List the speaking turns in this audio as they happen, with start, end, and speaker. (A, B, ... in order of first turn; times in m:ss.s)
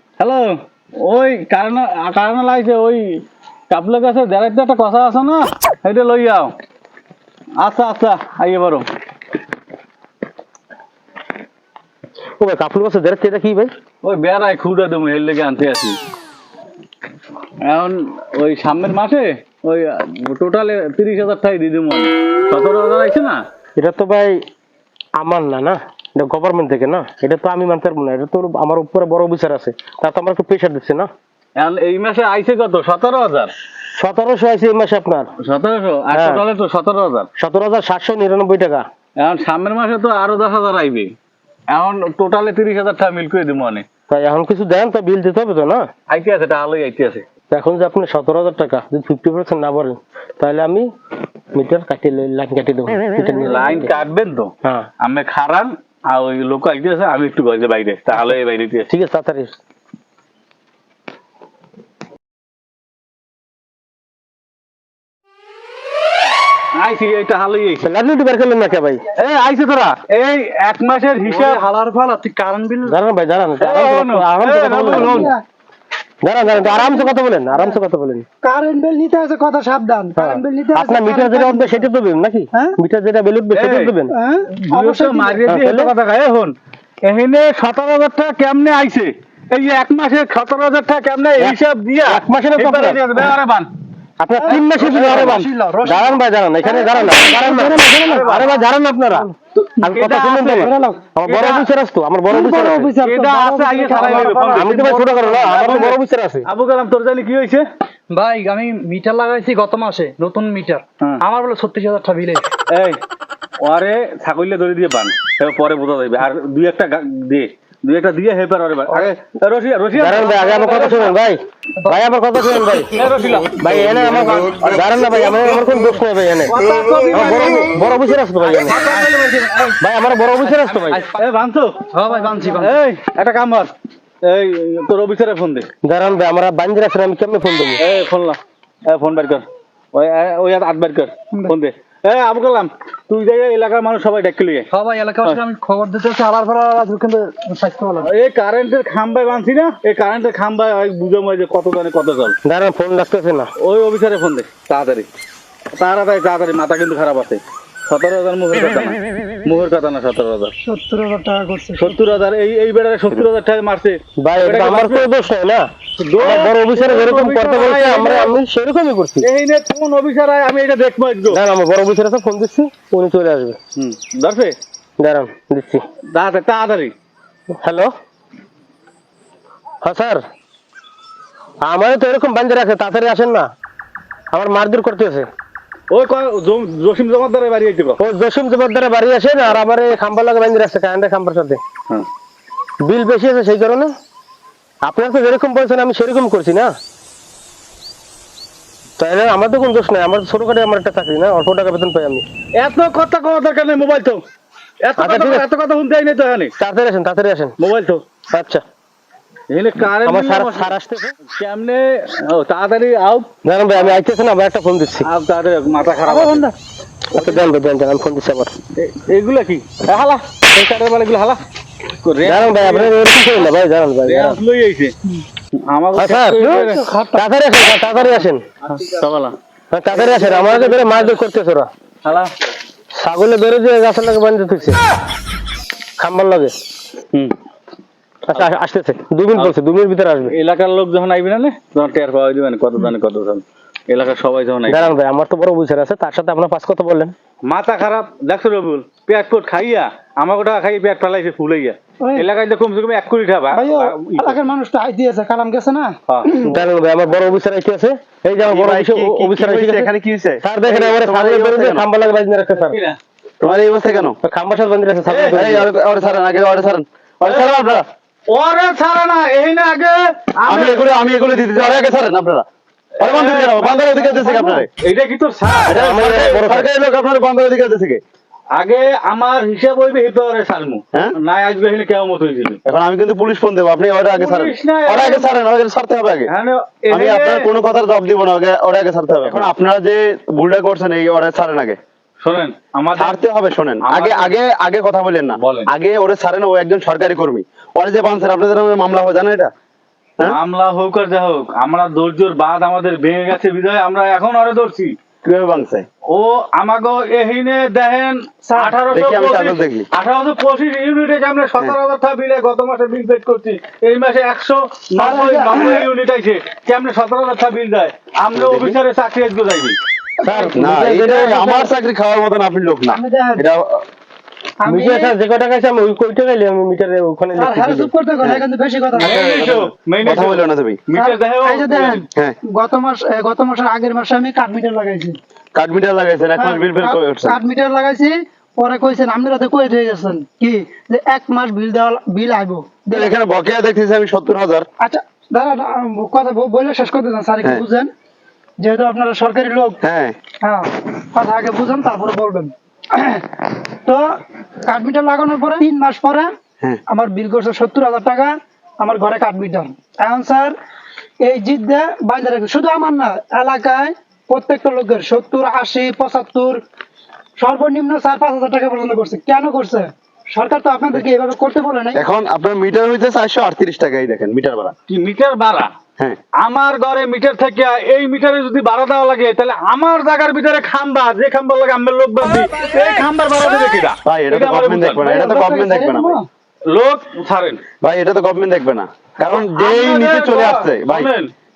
0:00.2-0:06.5 A
0:07.6-0:08.9 A
0:12.4-0:13.7 B
0:14.0-0:16.0 A
0:17.6-0:23.4 A
0:23.8-0:24.4 B
0:25.2-0:31.1 B
0:31.6-0:33.5 A
0:33.9-0:35.3 B
0:35.4-0:37.3 A
0:36.1-0:36.4 B
0:37.4-0:38.9 B
0:39.2-0:41.1 A
0:41.7-0:43.9 A
0:44.1-0:45.9 B
0:46.1-0:47.3 A
0:47.5-0:50.9 B
0:51.5-0:53.9 B
0:53.3-0:58.9 A
0:58.9-0:59.6 B
1:06.8-1:07.9 A
1:07.8-1:09.0 B
1:09.2-1:11.6 A
1:11.2-1:13.0 C
1:12.8-1:15.3 B
1:13.6-1:15.3 A
1:15.0-1:15.4 D
1:16.2-1:18.3 B
1:18.4-1:21.9 D
1:20.2-1:24.2 B
1:23.5-1:23.9 A
1:24.1-1:25.1 D
1:24.5-1:33.7 A
1:25.4-1:25.9 B
1:31.4-1:33.0 B
1:34.2-1:42.9 B
1:34.5-1:36.2 C
1:35.0-1:35.4 A
1:37.2-1:37.8 D
1:37.9-1:38.5 A
1:39.6-1:41.7 A
1:42.3-1:44.3 D
1:43.0-1:47.7 A
1:44.0-1:45.3 C
1:44.4-1:46.5 B
1:48.1-1:52.5 C
1:52.7-1:53.0 A
1:53.6-2:01.2 A
1:59.9-2:03.0 B
2:02.9-2:04.6 A
2:03.6-2:08.9 B
2:04.6-2:05.9 E
2:06.5-2:07.8 A
2:08.4-2:09.8 A
2:09.8-2:11.0 B
2:10.4-2:11.9 A
2:11.9-2:12.8 C
2:12.5-2:13.7 A
2:14.2-2:15.7 A
2:15.8-2:17.8 B
2:17.8-2:24.7 A
2:24.7-2:28.1 C
2:28.0-2:32.4 A
2:32.4-2:33.5 B
2:33.6-2:35.1 A
2:35.7-2:40.5 A
2:40.6-2:42.1 D
2:41.8-2:45.0 A
2:44.2-2:49.3 B
2:46.0-2:48.3 A
2:49.2-2:51.4 A
2:51.3-2:53.6 B
2:53.8-2:54.6 A
2:55.0-2:55.8 B
2:56.1-2:56.9 A
2:57.6-2:57.9 B
2:59.8-3:00.2 B
3:01.6-3:03.5 B
3:04.3-3:05.3 B
3:05.9-3:08.0 A
3:08.0-3:11.6 B
3:12.8-3:13.9 B
3:14.8-3:16.7 B
3:19.0-3:22.2 B
3:22.6-3:24.2 A
3:24.8-3:26.5 A
3:25.0-3:25.4 B
3:26.6-3:27.6 B
3:27.6-3:28.1 A
3:28.3-3:28.6 B
3:29.5-3:30.8 A
3:30.0-3:31.2 B
3:31.3-3:33.9 A
3:33.4-3:35.1 B
3:35.0-3:36.5 A
3:36.0-3:36.5 C
3:37.1-3:38.5 B
3:37.2-3:37.4 A
3:38.8-3:41.4 A
3:42.0-3:43.5 A
3:42.2-3:44.4 B
3:44.0-3:44.9 A
3:45.5-3:46.8 A
3:46.0-3:48.4 B
3:48.7-3:49.4 A
3:49.7-3:51.7 B
3:49.9-3:51.1 A
3:52.0-3:52.3 A
3:53.0-3:54.8 B
3:56.0-3:56.6 B
3:58.3-4:00.3 B
4:00.3-4:05.0 A
4:04.7-4:07.1 B
4:07.4-4:14.4 A
4:13.5-4:16.5 D
4:16.1-4:16.4 A
4:16.4-4:19.9 B
4:18.4-4:21.8 E
4:20.4-4:22.8 B
4:22.6-4:23.0 A
4:23.4-4:24.2 E
4:24.2-4:25.7 B
4:25.1-4:25.4 A
4:25.3-4:27.9 E
4:27.2-4:27.5 A
4:28.3-4:30.9 A
4:30.5-4:32.5 E
4:33.0-4:36.3 A
4:33.0-4:34.7 E
4:35.7-4:38.0 E
4:35.7-4:36.7 B
4:38.5-4:42.6 A
4:42.6-4:46.3 E
4:44.1-4:45.3 A
4:46.3-4:47.5 A
4:46.9-4:51.8 E
4:49.3-4:49.5 A
4:52.2-4:53.2 A
4:52.9-4:59.5 E
4:53.8-4:54.3 A
4:55.4-4:55.7 A
5:00.2-5:05.0 A
5:05.2-5:05.9 E
5:06.1-5:19.8 A
5:08.9-5:09.9 E
5:15.0-5:15.7 D
5:18.3-5:18.8 E
5:20.2-5:20.6 D
5:20.2-5:21.2 B
5:20.5-5:23.8 E
5:22.9-5:23.4 D
5:24.6-5:25.1 D
5:24.6-5:27.9 B
5:27.4-5:29.1 D
5:29.0-5:30.9 E
5:29.0-5:32.0 A
5:30.9-5:35.2 D
5:32.1-5:32.4 E
5:35.5-5:37.4 E
5:36.4-5:43.1 D
5:42.9-5:44.7 E
5:44.8-5:47.9 D
5:48.6-5:49.8 D
5:49.8-5:50.2 E
5:50.4-5:56.3 D
5:56.9-6:00.6 D
6:01.2-6:06.6 D
6:07.4-6:12.0 D
6:12.0-6:14.8 E
6:14.9-6:15.7 A
6:16.4-6:25.1 A
6:24.1-6:26.2 E
6:25.1-6:26.3 D
6:26.7-6:27.6 A
6:27.8-6:31.1 E
6:29.2-6:31.3 A